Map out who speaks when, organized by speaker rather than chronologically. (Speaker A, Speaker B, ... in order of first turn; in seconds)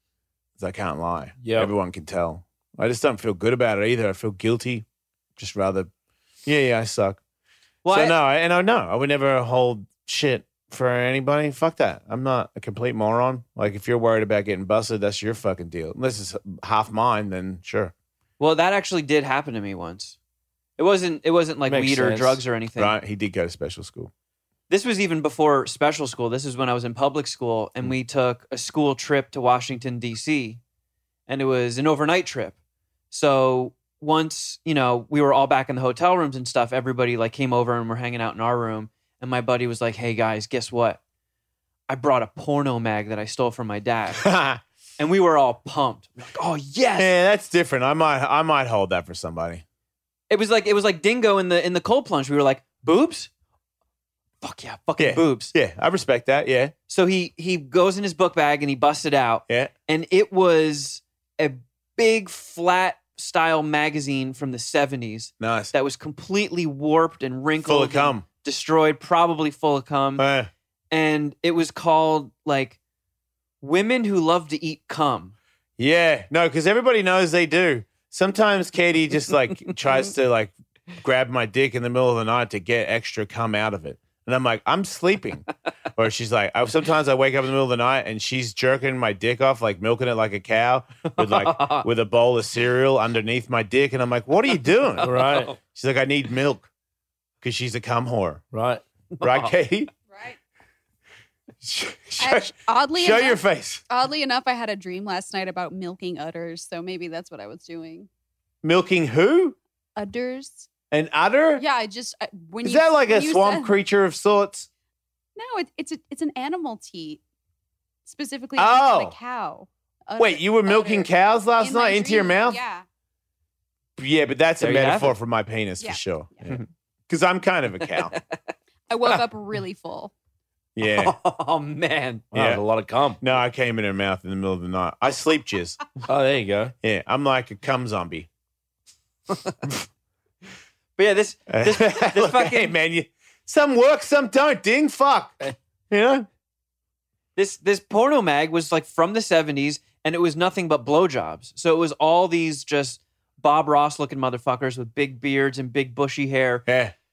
Speaker A: 0.6-4.8, 5.4-5.9, 6.5-7.2, 7.9-17.9, 22.8-24.1, 44.2-44.6, 47.0-49.6, 55.0-56.7, 65.4-65.7, 67.6-68.2, 70.2-70.5, 75.8-95.1, 95.7-96.7, 97.4-98.4, 99.2-99.9, 101.6-103.8, 108.6-109.6, 110.9-111.6, 112.6-114.7, 118.6-119.2, 120.2-122.6, 124.0-128.2, 130.8-131.2, 132.3-132.6, 133.2-135.8, 136.8-138.3, 141.5-145.3, 145.9-146.3, 156.7-156.9
Speaker B: 1.4-1.7, 21.7-22.4, 95.0-95.5, 98.5-98.8, 132.3-133.2, 136.1-136.7
Speaker C: 7.8-8.2, 18.4-20.2, 20.8-23.0, 24.7-30.6, 31.3-32.6, 33.1-41.0, 41.9-44.3, 45.0-47.1, 50.3-53.3, 54.4-55.5, 56.9-70.2, 70.9-72.8, 73.6-75.3, 91.2-91.8, 99.2-99.5, 124.6-125.2, 128.1-128.4, 130.8-132.2, 141.0-142.7, 147.4-156.7
Speaker D: 100.1-100.4, 102.2-108.1, 110.0-110.7, 111.6-113.8, 115.4-117.2, 118.0-122.8, 128.9-130.1